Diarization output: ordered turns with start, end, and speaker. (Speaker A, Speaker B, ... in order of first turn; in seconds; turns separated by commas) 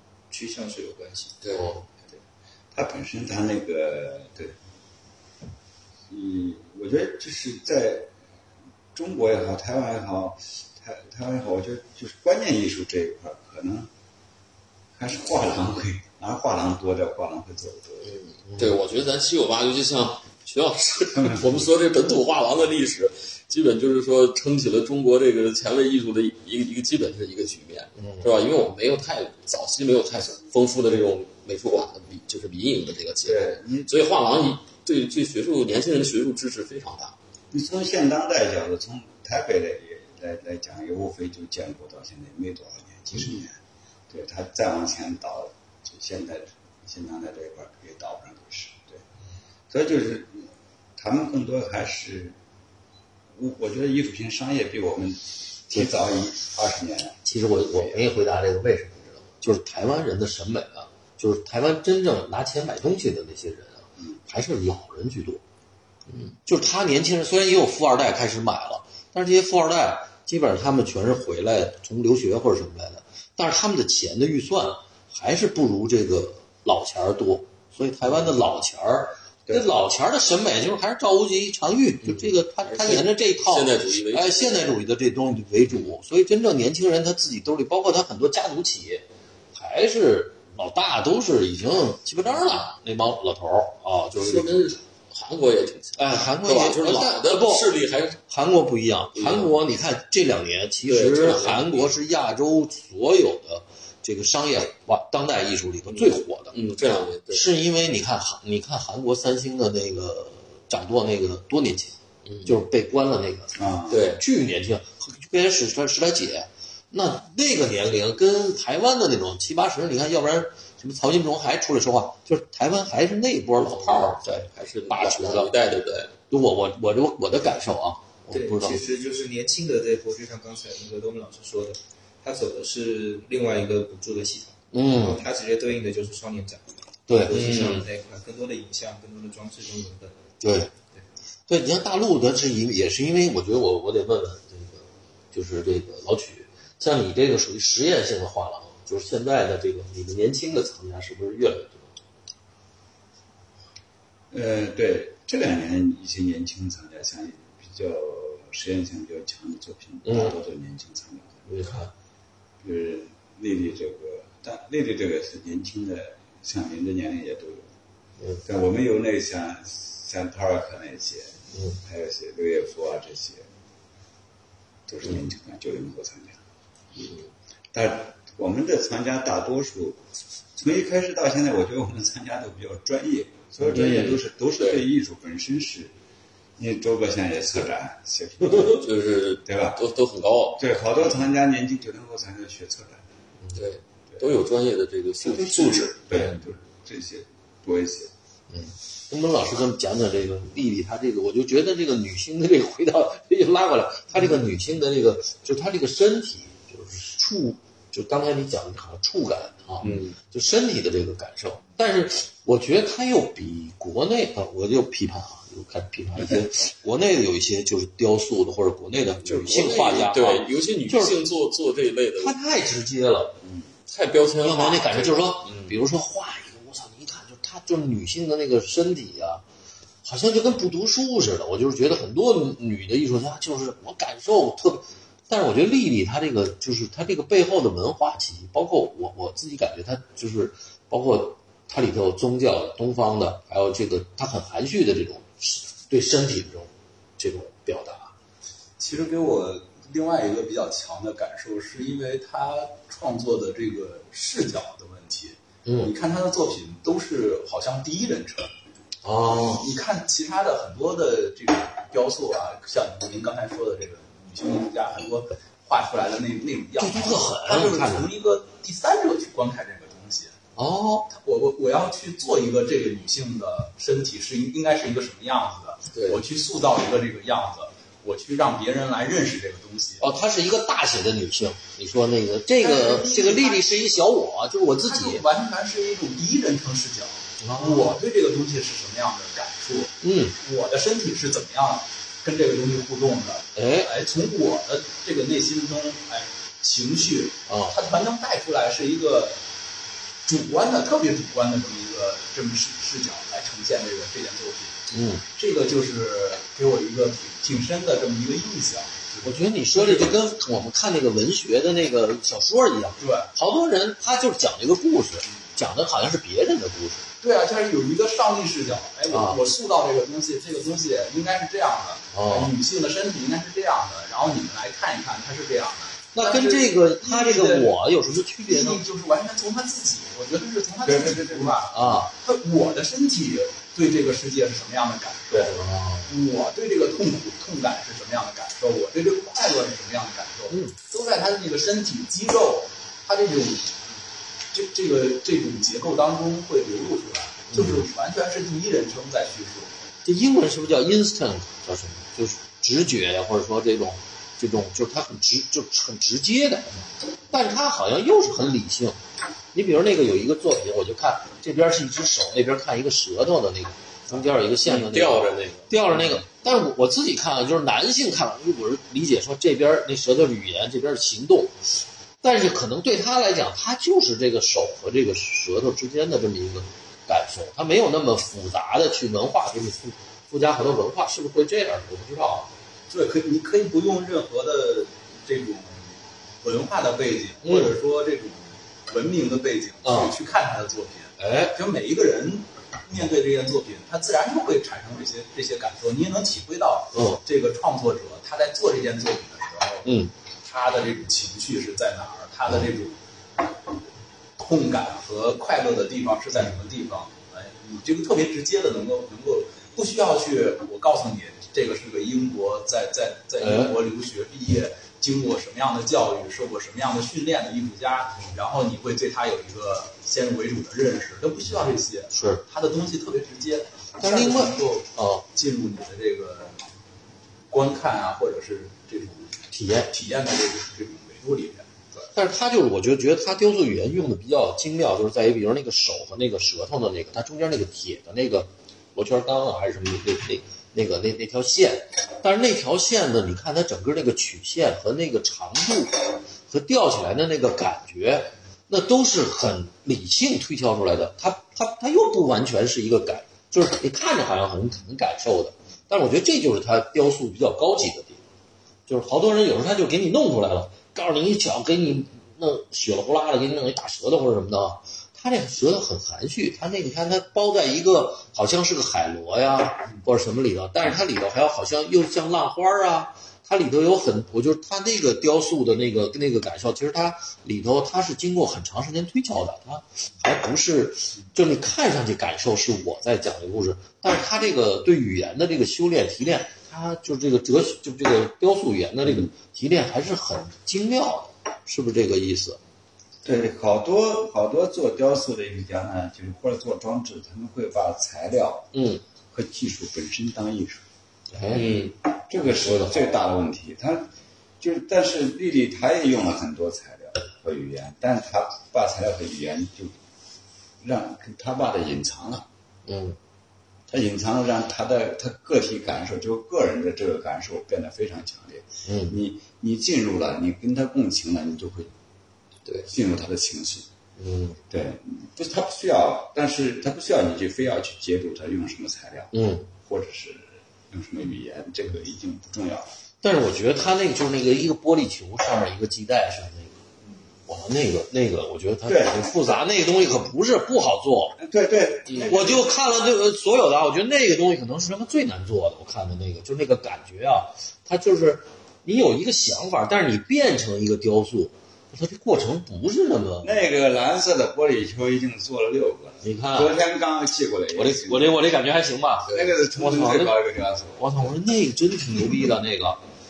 Speaker A: 0.3-1.4, Speaker B: 1.4-1.7, Speaker C: 1.5-1.9, Speaker D: 2.7-4.5, Speaker D: 6.1-8.1, Speaker D: 8.9-13.9, Speaker D: 15.0-18.2, Speaker C: 18.5-18.8, Speaker B: 18.5-37.1, Speaker D: 21.1-21.4, Speaker C: 28.0-28.3, Speaker D: 33.2-33.9, Speaker D: 37.5-43.6, Speaker D: 44.1-49.0, Speaker D: 49.7-52.4, Speaker D: 53.4-58.0, Speaker C: 57.2-65.4, Speaker C: 66.5-94.7, Speaker B: 82.6-84.7, Speaker B: 94.2-98.2, Speaker C: 96.0-97.7, Speaker C: 98.3-106.6, Speaker B: 99.1-99.6, Speaker B: 100.8-101.9, Speaker B: 105.9-107.5, Speaker C: 107.3-125.5, Speaker B: 112.2-112.5, Speaker D: 113.6-114.0, Speaker B: 113.9-114.2, Speaker B: 123.6-126.1, Speaker C: 126.3-128.8, Speaker A: 128.3-136.6, Speaker C: 134.7-135.2, Speaker C: 137.1-137.8, Speaker A: 137.2-140.2, Speaker B: 137.3-137.8, Speaker C: 140.4-140.7, Speaker C: 141.5-151.9, Speaker D: 154.3-161.4, Speaker C: 160.0-160.4, Speaker C: 161.5-161.9, Speaker D: 162.6-167.7, Speaker D: 168.4-173.4, Speaker C: 171.5-171.8, Speaker D: 174.9-176.4, Speaker B: 176.9-177.3, Speaker D: 177.7-180.0, Speaker D: 180.6-185.9, Speaker B: 183.7-184.9, Speaker D: 186.6-188.9, Speaker B: 188.6-191.2, Speaker D: 189.4-189.8, Speaker D: 190.6-193.0, Speaker B: 193.5-196.4, Speaker D: 195.2-198.1, Speaker C: 198.5-221.2, Speaker B: 209.8-210.2, Speaker B: 219.2-222.4, Speaker C: 222.2-223.4, Speaker B: 223.9-225.8, Speaker C: 224.4-229.4, Speaker C: 230.0-248.1, Speaker E: 248.8-258.5, Speaker C: 255.6-255.9, Speaker C: 259.0-259.7, Speaker E: 259.3-270.4, Speaker C: 266.8-268.1, Speaker C: 270.6-271.1, Speaker E: 271.1-280.1, Speaker B: 275.9-276.2, Speaker C: 280.0-285.2, Speaker E: 282.6-283.8, Speaker E: 284.8-299.4, Speaker C: 287.4-288.0, Speaker C: 290.0-290.4, Speaker C: 293.6-293.9, Speaker C: 297.5-297.8, Speaker E: 300.2-304.8, Speaker C: 304.9-305.2, Speaker E: 305.3-310.1, Speaker C: 309.2-317.1, Speaker E: 313.0-313.3, Speaker E: 317.2-327.8, Speaker C: 319.1-319.4, Speaker C: 322.1-322.5, Speaker C: 326.1-328.8, Speaker E: 328.4-343.9, Speaker D: 330.8-331.6, Speaker C: 331.7-332.1, Speaker C: 335.3-336.1, Speaker C: 340.5-340.8, Speaker E: 344.5-349.7, Speaker C: 347.5-347.9, Speaker C: 350.0-359.0, Speaker C: 359.5-371.6, Speaker B: 364.6-366.2, Speaker C: 372.2-382.5, Speaker E: 382.9-403.5, Speaker C: 387.4-387.8, Speaker C: 389.8-390.2, Speaker C: 391.2-391.6, Speaker C: 396.9-397.2, Speaker C: 399.8-400.1, Speaker E: 404.4-426.6, Speaker C: 413.4-413.7, Speaker C: 422.1-422.4, Speaker C: 424.0-425.2, Speaker E: 427.5-432.1, Speaker C: 429.5-429.9, Speaker C: 432.1-458.2, Speaker C: 458.9-492.6, Speaker D: 493.2-498.7, Speaker C: 498.7-499.0, Speaker D: 499.3-500.8, Speaker C: 501.3-501.8, Speaker B: 501.5-503.1, Speaker D: 502.3-509.9, Speaker C: 502.6-503.0, Speaker D: 510.8-512.5, Speaker C: 512.9-513.2, Speaker D: 513.9-521.9, Speaker C: 518.8-519.1, Speaker D: 522.9-523.9, Speaker C: 524.2-524.6, Speaker D: 524.7-532.9, Speaker C: 529.3-529.7, Speaker C: 533.2-536.8, Speaker C: 537.5-541.4, Speaker D: 538.9-539.6, Speaker D: 541.4-542.7, Speaker B: 542.1-542.4, Speaker C: 542.2-553.6, Speaker D: 553.4-558.4, Speaker C: 556.2-556.7, Speaker C: 557.7-560.4, Speaker D: 559.3-561.3, Speaker C: 561.0-563.0